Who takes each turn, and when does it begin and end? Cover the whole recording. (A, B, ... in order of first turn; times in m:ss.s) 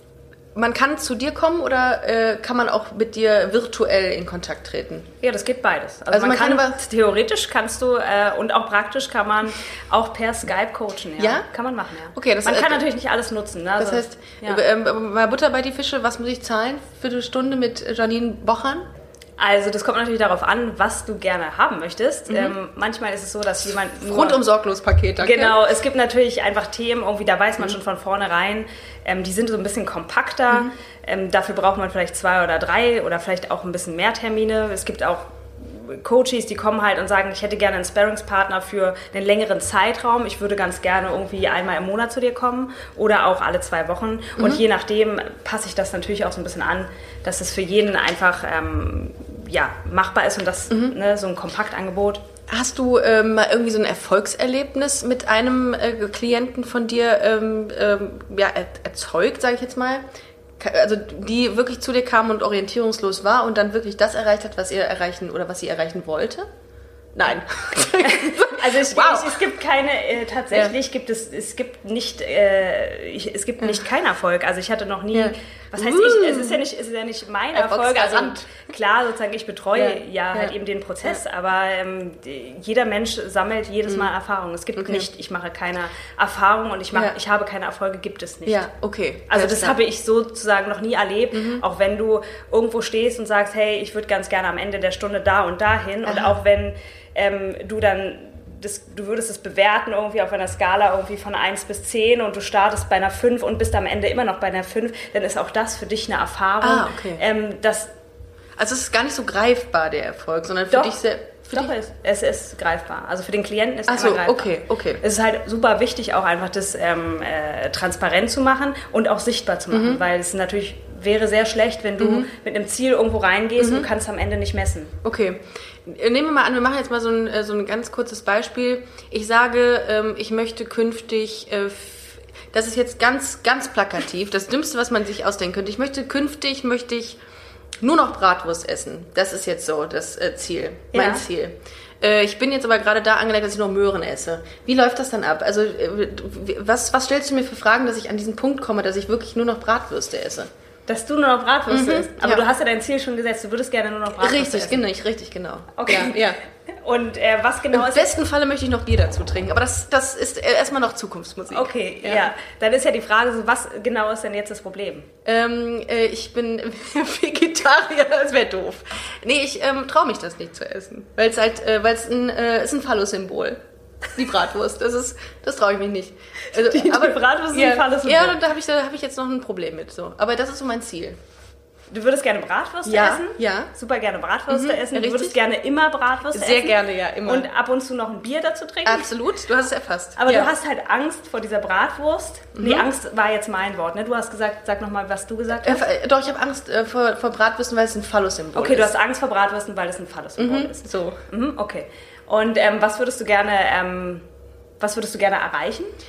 0:00.6-0:05.1 A
0:05.2-0:14.6 B
0:06.1-0:06.8 A
0:11.2-0:11.5 A
0:12.1-0:12.9 A
0:13.8-0:18.9 A
0:19.4-0:24.4 B
0:22.3-0:22.6 A
0:24.1-0:25.6 A
0:25.2-0:52.2 B
0:52.5-1:00.0 A
1:00.6-1:06.5 A
1:07.1-1:09.5 A
1:08.0-1:28.7 B
1:15.1-1:16.6 A
1:17.5-1:18.6 A
1:19.7-1:20.5 A
1:23.9-1:24.1 A
1:24.8-1:25.1 A
1:28.5-1:29.8 A
1:29.3-1:47.9 B
1:31.3-1:31.6 A
1:36.0-1:36.4 A
1:46.6-1:47.2 A
1:48.6-1:51.7 A
1:50.7-1:51.0 B
1:51.5-2:04.9 B
1:53.9-1:55.0 A
1:59.7-2:00.0 A
2:02.0-2:02.3 A
2:03.6-2:03.9 A
2:05.0-2:17.2 A
2:17.8-2:30.5 A
2:20.9-2:21.2 B
2:30.9-2:34.8 B
2:31.7-2:32.4 A
2:34.2-2:36.4 A
2:35.8-2:36.2 B
2:36.8-2:38.2 B
2:37.7-2:42.3 A
2:41.5-2:45.1 B
2:45.2-2:53.6 A
2:54.1-3:01.2 A
2:56.5-2:58.4 B
3:01.9-3:09.1 B
3:02.9-3:03.7 A
3:04.5-3:05.4 A
3:06.3-3:07.5 A
3:08.8-3:10.5 A
3:10.2-3:15.8 B
3:12.6-3:12.9 A
3:15.6-3:18.9 A
3:18.6-3:24.3 B
3:20.4-3:21.2 A
3:24.8-3:25.9 B